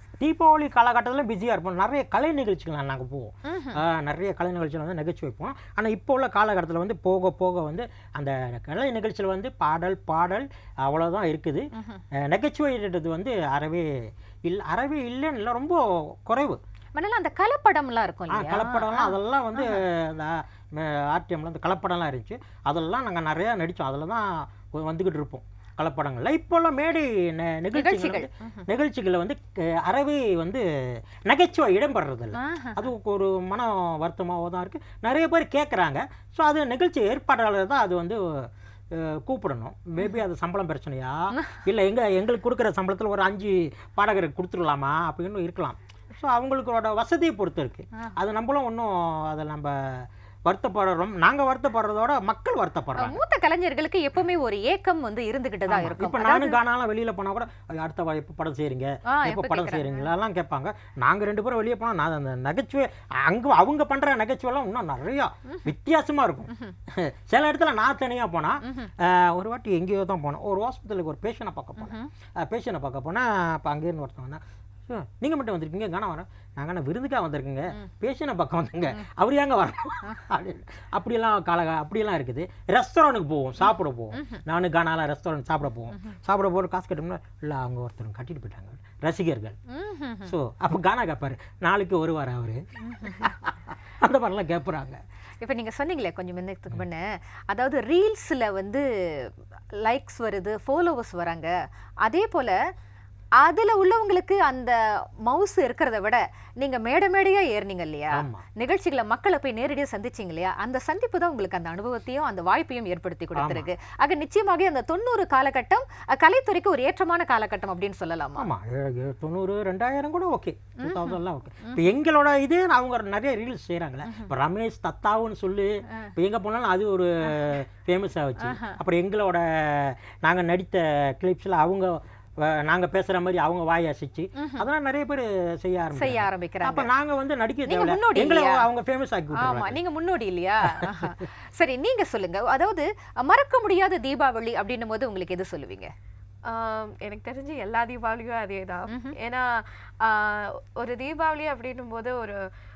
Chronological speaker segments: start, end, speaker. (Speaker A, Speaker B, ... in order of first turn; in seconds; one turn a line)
Speaker A: 0.2-16.6
Speaker B: 3.5-3.8
Speaker B: 11.8-12.0
Speaker B: 16.9-19.8
Speaker A: 18.3-30.6
Speaker B: 27.7-28.6
Speaker A: 31.2-53.2
Speaker B: 32.3-32.9
Speaker B: 53.0-56.6
Speaker A: 55.7-89.6
Speaker B: 59.1-60.0
Speaker B: 68.6-68.9
Speaker B: 71.8-72.1
Speaker B: 84.1-84.4
Speaker B: 89.7-90.3
Speaker A: 90.2-95.0
Speaker B: 92.9-93.3
Speaker B: 95.4-102.6
Speaker B: 103.4-118.5
Speaker A: 108.1-108.4
Speaker A: 113.3-113.7
Speaker A: 118.3-139.8
Speaker B: 120.8-121.8
Speaker B: 128.4-128.8
Speaker B: 134.3-134.6
Speaker B: 135.9-136.9
Speaker B: 137.7-138.6
Speaker B: 139.3-145.9
Speaker A: 140.6-141.1
Speaker C: 146.4-152.4